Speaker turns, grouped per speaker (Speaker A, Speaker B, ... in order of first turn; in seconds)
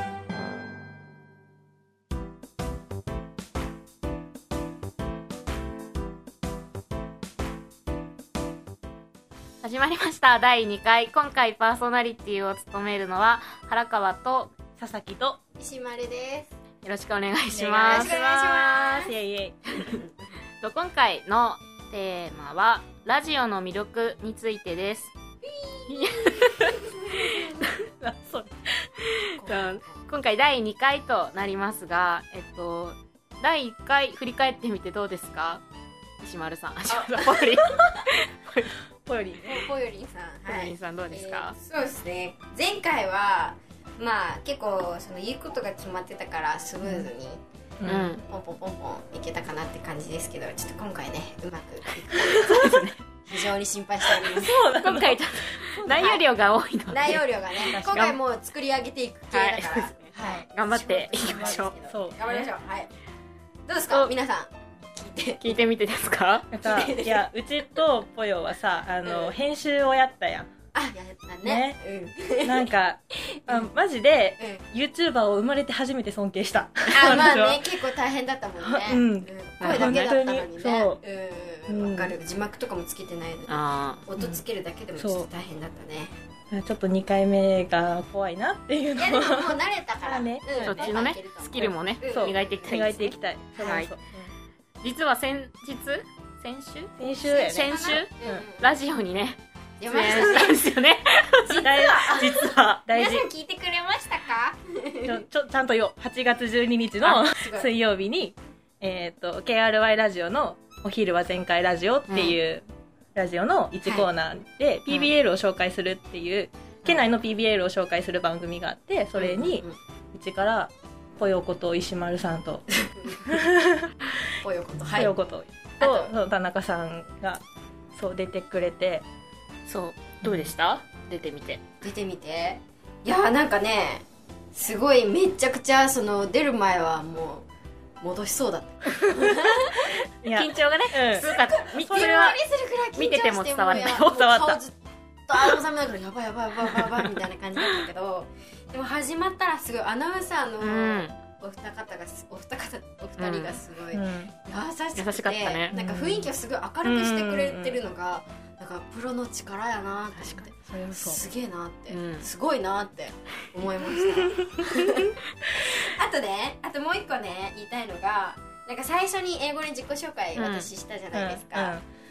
Speaker A: 9.6-14.5, 16.8-19.1, 20.6-25.1, 25.9-26.8, 27.4-27.7, 29.4-35.6, 36.2-38.7, 40.5-41.5, 47.9-48.2, 52.3-53.0, 54.2-58.2, 59.3-61.8, 65.4-66.5, 83.5-84.0, 90.6-93.9, 94.8-101.7, 107.0-107.2, 112.1-112.4, 129.7-131.6, 140.3-142.4, 142.9-144.3, 150.6-151.1, 153.2-153.6, 154.9-155.7, 160.1-160.5, 161.9-162.3, 170.3-170.7
Speaker B: 14.8-15.4, 17.5-18.2, 19.0-19.6, 27.6-28.9, 39.0-39.6, 47.8-48.1, 52.3-52.8, 54.3-56.2, 57.7-58.1, 61.9-62.5, 66.5-70.5, 71.5-71.8, 72.5-77.7, 78.6-81.0, 81.7-82.1, 84.2-84.4, 85.0-85.3, 86.5-89.5, 90.0-91.0, 91.6-94.3, 97.0-98.4, 99.9-100.5, 101.6-103.3, 105.0-112.6, 113.1-122.7, 123.2-123.9, 125.0-127.4, 128.0-129.0, 130.2-130.5, 140.2-141.3, 143.7-144.6, 153.9-154.3, 155.7-156.3, 156.8-157.8, 160.5-161.2, 164.3-165.1, 171.1-171.8
Speaker C: 15.6-16.6, 17.8-19.1, 19.8-20.1, 25.6-27.5, 29.3-30.0, 36.9-37.5, 39.4-47.4, 48.3-52.6, 53.3-54.5, 55.9-56.2, 56.9-62.9, 63.7-65.6, 66.6-67.3, 69.0-69.3, 70.7-72.7, 74.4-74.6, 76.9-86.1, 89.0-93.1, 97.2-98.8, 99.8-100.6, 101.4-105.2, 107.3-107.7, 113.8-114.1, 119.1-119.8, 122.7-123.3, 124.4-125.1, 125.8-126.1, 131.8-137.4, 138.0-140.0, 141.1-171.8